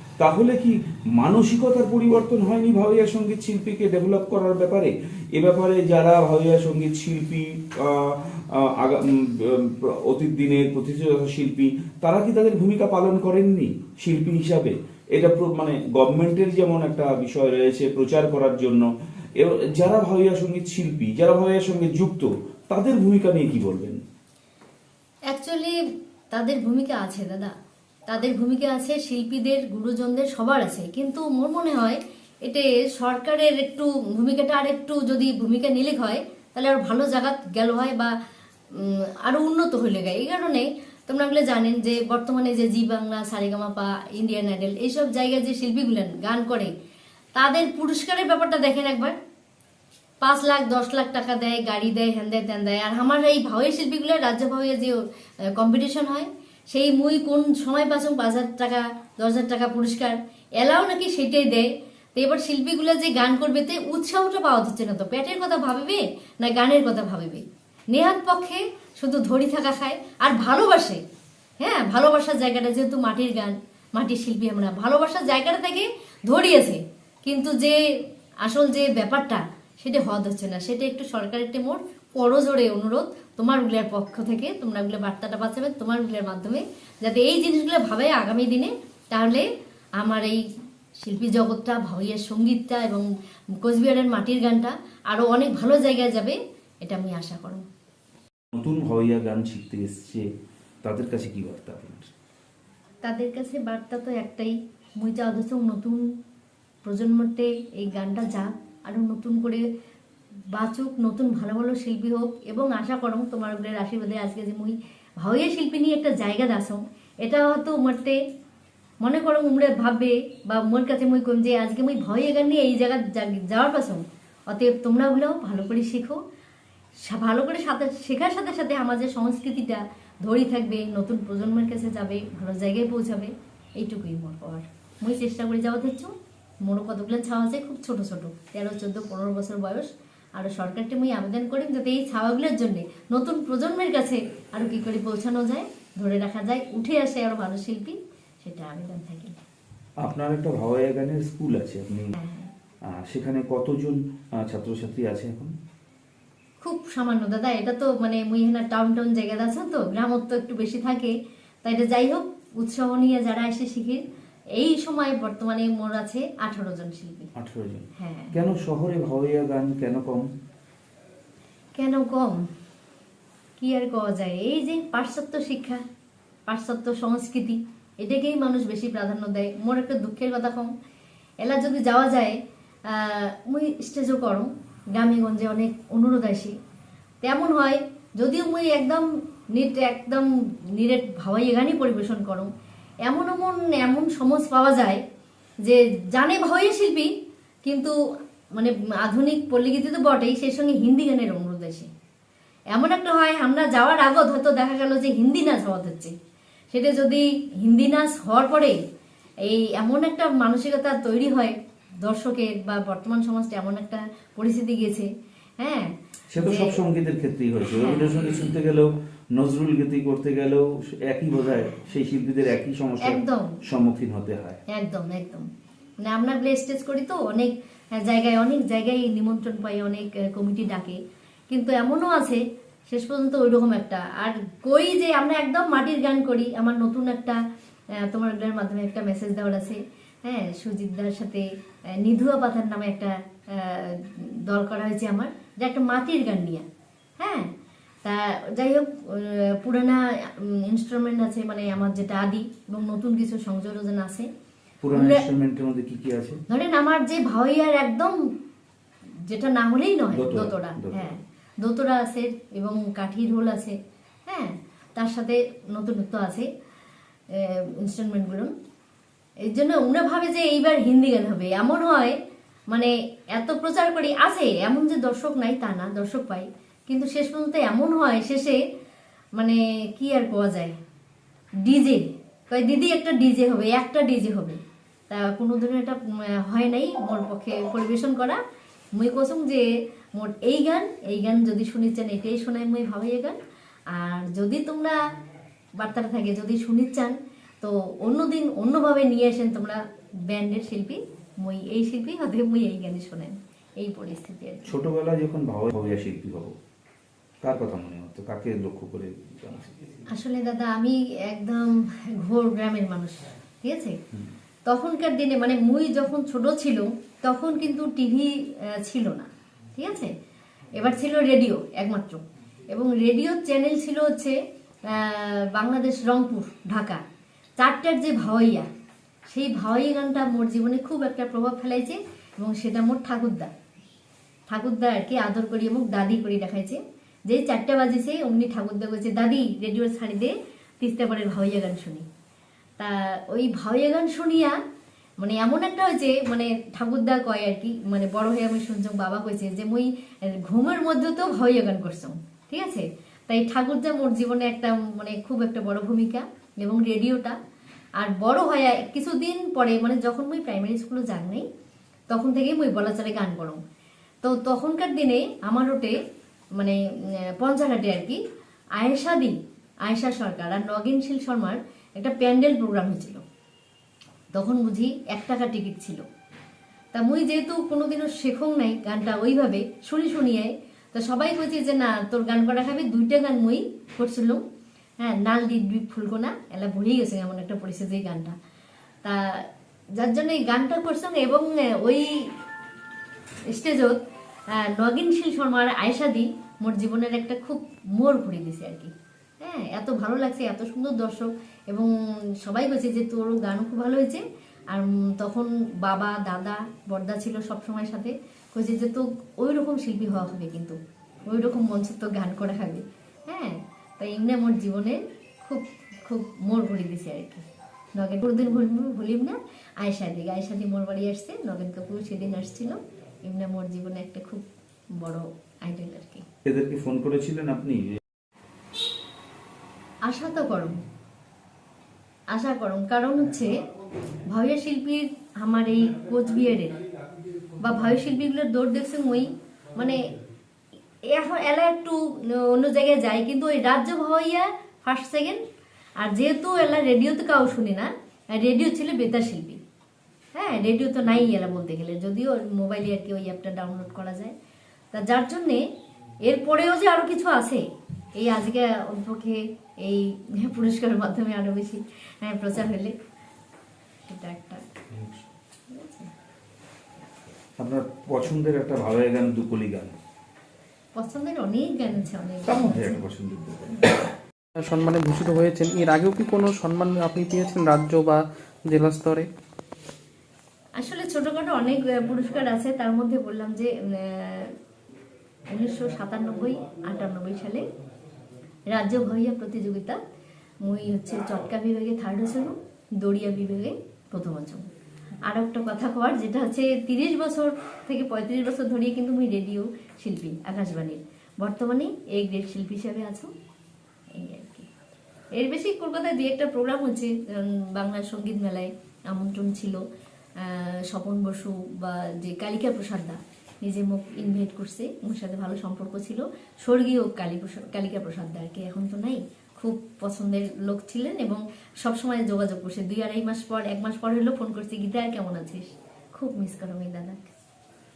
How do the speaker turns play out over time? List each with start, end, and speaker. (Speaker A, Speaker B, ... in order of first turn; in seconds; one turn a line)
Speaker A: 0.2-18.9
Speaker A: 19.4-24.0
Speaker B: 25.3-25.7
Speaker B: 26.3-27.5
Speaker B: 28.1-38.1
Speaker B: 38.8-46.7
Speaker B: 47.4-49.1
Speaker B: 50.2-55.0
Speaker B: 55.6-71.0
Speaker B: 71.6-77.8
Speaker B: 78.4-89.5
Speaker B: 90.0-90.4
Speaker B: 91.0-93.0
Speaker B: 93.6-97.6
Speaker A: 98.5-100.2
Speaker A: 100.8-102.1
Speaker B: 103.0-106.0
Speaker B: 106.8-109.6
Speaker B: 110.5-118.2
Speaker B: 119.0-126.2
Speaker B: 127.1-136.1
Speaker B: 136.7-149.3
Speaker A: 150.0-152.1
Speaker B: 152.2-152.5
Speaker A: 152.9-155.5
Speaker B: 156.6-161.1
Speaker B: 161.6-164.0
Speaker B: 164.6-167.3
Speaker A: 167.4-170.3
Speaker B: 168.0-168.3
Speaker B: 171.8-172.4
Speaker B: 173.6-175.8
Speaker B: 176.5-180.7
Speaker B: 181.4-182.4
Speaker B: 182.9-186.5
Speaker B: 187.2-192.5
Speaker B: 193.0-195.0
Speaker B: 195.6-197.1
Speaker B: 197.6-197.9
Speaker B: 198.6-201.9
Speaker B: 202.7-206.1
Speaker B: 206.7-208.8
Speaker B: 209.5-215.1
Speaker B: 215.6-216.8
Speaker A: 216.3-224.6
Speaker B: 217.7-218.2
Speaker B: 223.0-223.6
Speaker B: 224.7-225.4
Speaker B: 226.0-231.0
Speaker B: 231.5-237.4
Speaker B: 238.1-241.4
Speaker B: 242.0-246.6
Speaker B: 247.2-247.5
Speaker B: 248.0-254.3
Speaker A: 254.8-256.4
Speaker B: 254.9-255.2
Speaker B: 256.5-258.1
Speaker B: 259.3-263.8
Speaker A: 260.1-261.1
Speaker B: 264.3-266.5
Speaker B: 267.4-268.5
Speaker B: 269.5-272.1
Speaker B: 272.7-278.6
Speaker B: 279.4-280.7
Speaker B: 281.6-284.6
Speaker B: 285.1-288.4
Speaker B: 289.0-289.6
Speaker B: 290.1-293.4
Speaker B: 293.9-295.0
Speaker B: 295.8-304.8
Speaker A: 304.7-306.5
Speaker A: 307.4-309.8
Speaker B: 310.1-314.0
Speaker B: 314.6-320.1
Speaker B: 320.8-322.2
Speaker B: 322.7-324.4
Speaker B: 324.9-327.0
Speaker B: 327.6-328.6
Speaker B: 329.3-333.5
Speaker B: 334.5-342.1
Speaker B: 342.8-344.6
Speaker B: 345.2-357.4
Speaker B: 358.0-361.4
Speaker B: 362.1-363.6
Speaker B: 364.2-365.9
Speaker B: 367.4-368.2
Speaker B: 368.8-369.3
Speaker B: 369.9-373.2
Speaker B: 374.3-376.0
Speaker B: 376.9-384.4
Speaker B: 385.0-388.3
Speaker B: 390.0-392.1
Speaker B: 393.5-394.0
Speaker B: 394.6-398.9
Speaker B: 399.4-401.9
Speaker B: 402.4-417.4
Speaker B: 417.9-424.4
Speaker B: 425.0-426.2
Speaker A: 426.4-427.9
Speaker B: 430.1-430.7
Speaker B: 432.3-433.5
Speaker B: 434.2-436.8
Speaker B: 437.6-440.0
Speaker B: 441.1-445.4
Speaker B: 446.0-449.6
Speaker B: 450.4-454.3
Speaker B: 454.9-455.6
Speaker B: 456.2-457.6
Speaker B: 458.2-462.9
Speaker B: 464.1-464.6
Speaker B: 465.7-466.1
Speaker A: 467.6-469.9
Speaker B: 470.9-473.0
Speaker A: 472.4-474.0
Speaker C: 474.6-479.3
Speaker B: 480.8-484.5
Speaker B: 485.5-487.6
Speaker B: 488.7-490.0
Speaker B: 490.6-494.7
Speaker B: 495.3-503.3
Speaker B: 504.1-504.7
Speaker B: 505.4-509.8
Speaker B: 510.4-527.3